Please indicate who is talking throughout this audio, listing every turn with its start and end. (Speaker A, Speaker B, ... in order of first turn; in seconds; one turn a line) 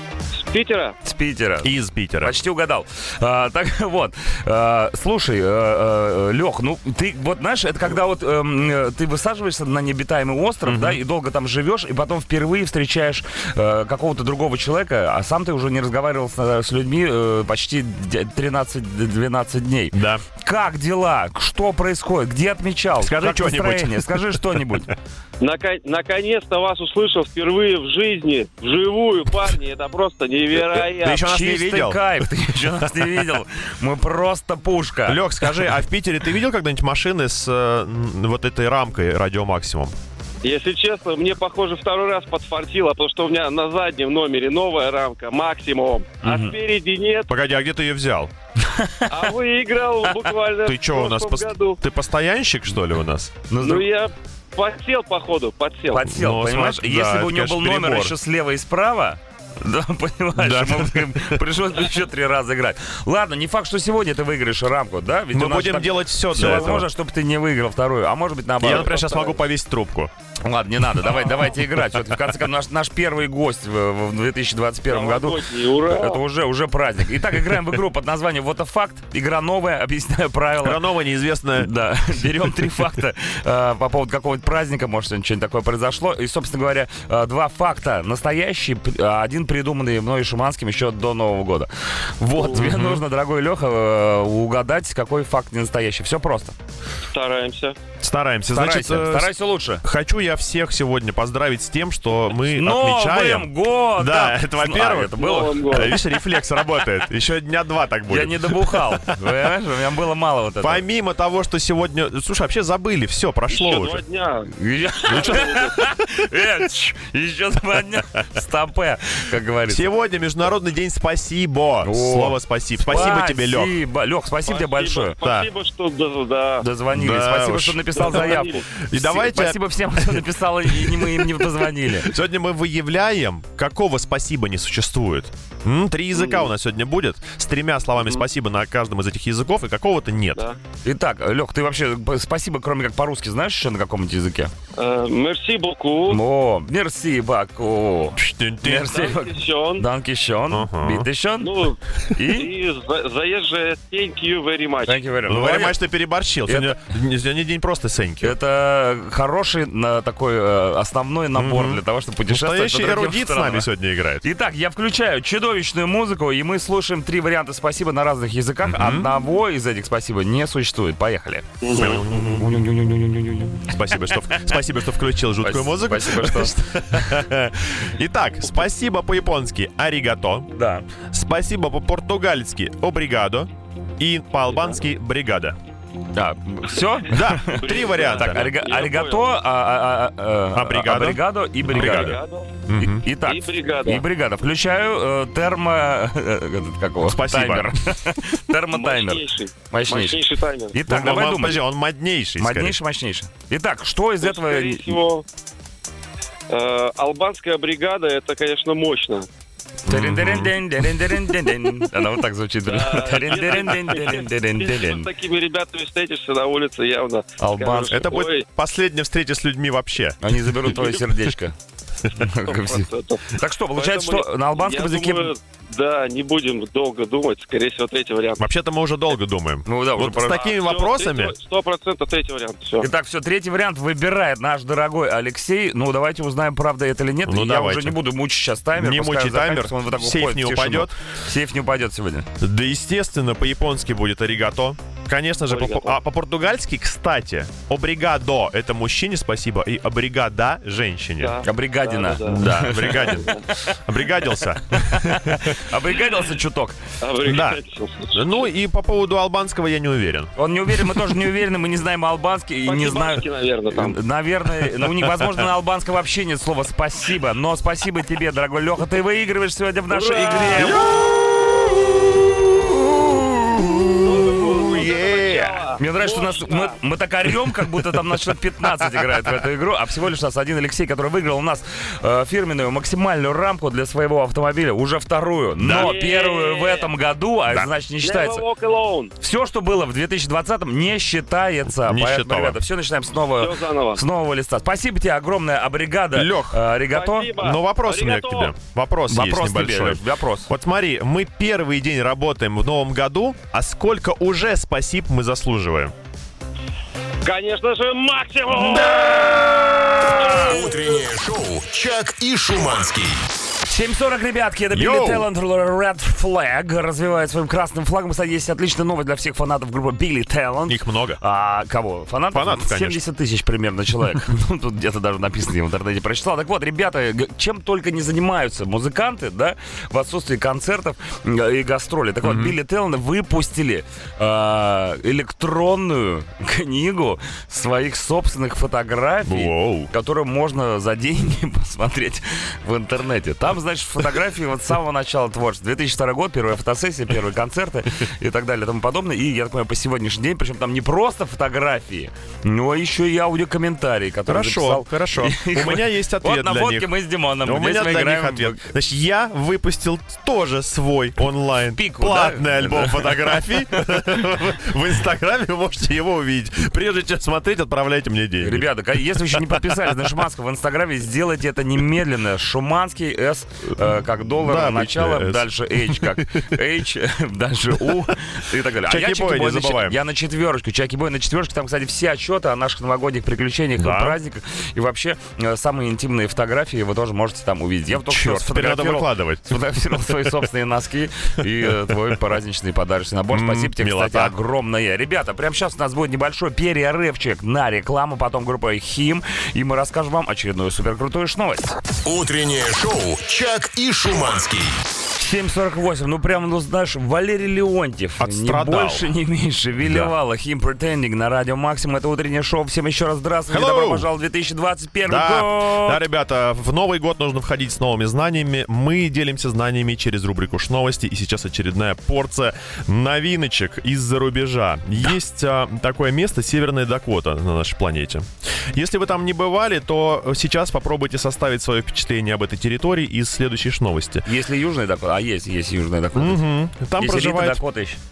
Speaker A: 0.3-1.0
Speaker B: 1.0-24.9
Speaker C: 1.6-2.4
Speaker C: 10.7-11.0
Speaker C: 19.9-20.2
Speaker C: 23.0-24.8
Speaker A: 25.4-31.2
Speaker C: 30.6-33.1
Speaker B: 31.1-35.5
Speaker C: 35.1-39.9
Speaker A: 40.4-47.3
Speaker B: 46.2-46.6
Speaker C: 47.3-48.3
Speaker B: 48.6-49.3
Speaker A: 49.1-51.8
Speaker C: 50.6-53.4
Speaker B: 53.5-53.9
Speaker A: 53.6-56.1
Speaker B: 55.9-69.3
Speaker C: 56.1-58.1
Speaker C: 60.4-61.4
Speaker C: 65.3-66.9
Speaker C: 68.6-70.1
Speaker B: 70.4-80.8
Speaker A: 74.9-76.2
Speaker C: 80.6-81.7
Speaker B: 81.6-96.5
Speaker A: 92.4-92.6
Speaker C: 92.5-93.0
Speaker A: 97.1-97.8
Speaker C: 98.0-109.2
Speaker B: 98.5-99.8
Speaker B: 102.5-106.1
Speaker A: 105.2-106.0
Speaker B: 108.1-110.8
Speaker C: 110.6-114.0
Speaker A: 113.5-114.5
Speaker B: 114.5-119.9
Speaker A: 115.1-115.9
Speaker C: 119.7-123.8
Speaker B: 121.8-125.2
Speaker A: 124.5-126.7
Speaker C: 125.2-125.5
Speaker B: 126.6-132.1
Speaker C: 126.9-131.5
Speaker A: 128.0-128.7
Speaker C: 132.0-140.4
Speaker A: 136.2-136.5
Speaker B: 140.8-144.5
Speaker A: 144.8-146.2
Speaker B: 146.1-152.5
Speaker C: 148.2-148.9
Speaker A: 148.9-149.8
Speaker C: 150.5-151.1
Speaker A: 151.4-155.0
Speaker B: 154.9-155.8
Speaker C: 155.3-158.3
Speaker B: 156.5-156.8
Speaker B: 158.2-163.7
Speaker C: 161.3-164.2
Speaker B: 164.2-174.2
Speaker C: 168.7-169.1
Speaker A: 171.6-172.1
Speaker C: 171.7-172.5
Speaker C: 173.7-180.5
Speaker B: 175.4-177.2
Speaker B: 180.5-180.8
Speaker C: 181.1-185.6
Speaker B: 186.2-192.2
Speaker C: 187.1-188.5
Speaker A: 187.5-189.3
Speaker C: 190.5-193.1
Speaker A: 191.7-192.6
Speaker B: 192.8-201.6
Speaker A: 193.2-194.0
Speaker C: 197.1-197.7
Speaker A: 198.7-200.8
Speaker C: 200.8-202.8
Speaker B: 202.4-205.0
Speaker A: 204.2-205.3
Speaker A: 206.5-209.3
Speaker B: 209.9-215.1
Speaker C: 209.9-210.5
Speaker A: 212.7-218.5
Speaker B: 217.4-218.1
Speaker C: 217.9-220.7
Speaker B: 220.2-221.6
Speaker B: 222.1-225.3
Speaker A: 222.3-228.4
Speaker C: 228.4-231.3
Speaker B: 229.7-230.5
Speaker A: 230.3-232.9
Speaker B: 232.8-242.3
Speaker C: 237.2-238.0
Speaker C: 238.8-240.9
Speaker C: 242.4-251.4
Speaker A: 245.5-246.0
Speaker A: 251.2-253.5
Speaker B: 251.4-253.6
Speaker C: 252.2-255.6
Speaker B: 254.9-256.8
Speaker A: 257.0-258.3
Speaker C: 257.2-257.6
Speaker C: 258.1-261.1
Speaker B: 260.4-270.9
Speaker A: 262.7-264.0
Speaker C: 264.7-265.5
Speaker A: 269.9-270.9
Speaker C: 270.2-275.6
Speaker A: 274.0-276.8
Speaker B: 275.8-288.4
Speaker C: 285.6-286.0
Speaker A: 285.7-286.9
Speaker A: 288.0-289.1
Speaker B: 289.2-297.4
Speaker C: 291.7-292.6
Speaker A: 293.4-294.0
Speaker C: 296.1-296.6
Speaker A: 296.9-298.5
Speaker C: 297.4-305.9
Speaker B: 299.1-300.5
Speaker A: 307.2-310.6
Speaker D: 310.1-313.3
Speaker B: 313.7-358.6
Speaker C: 314.7-315.3
Speaker C: 320.7-321.2
Speaker C: 322.3-323.0
Speaker C: 332.2-332.6
Speaker C: 339.3-339.9
Speaker C: 354.3-356.9
Speaker C: 357.4-369.9
Speaker B: 361.8-363.6
Speaker B: 368.4-401.8
Speaker C: 374.4-376.4
Speaker C: 378.9-380.0
Speaker C: 383.8-384.2
Speaker C: 388.1-389.6
Speaker C: 391.4-392.0
Speaker C: 393.3-394.3
Speaker D: 402.0-404.8
Speaker B: 405.2-416.0
Speaker C: 408.2-409.1
Speaker C: 409.8-410.1
Speaker C: 413.5-414.1
Speaker C: 415.1-434.3
Speaker B: 434.3-436.4
Speaker C: 436.1-437.6
Speaker B: 437.0-438.0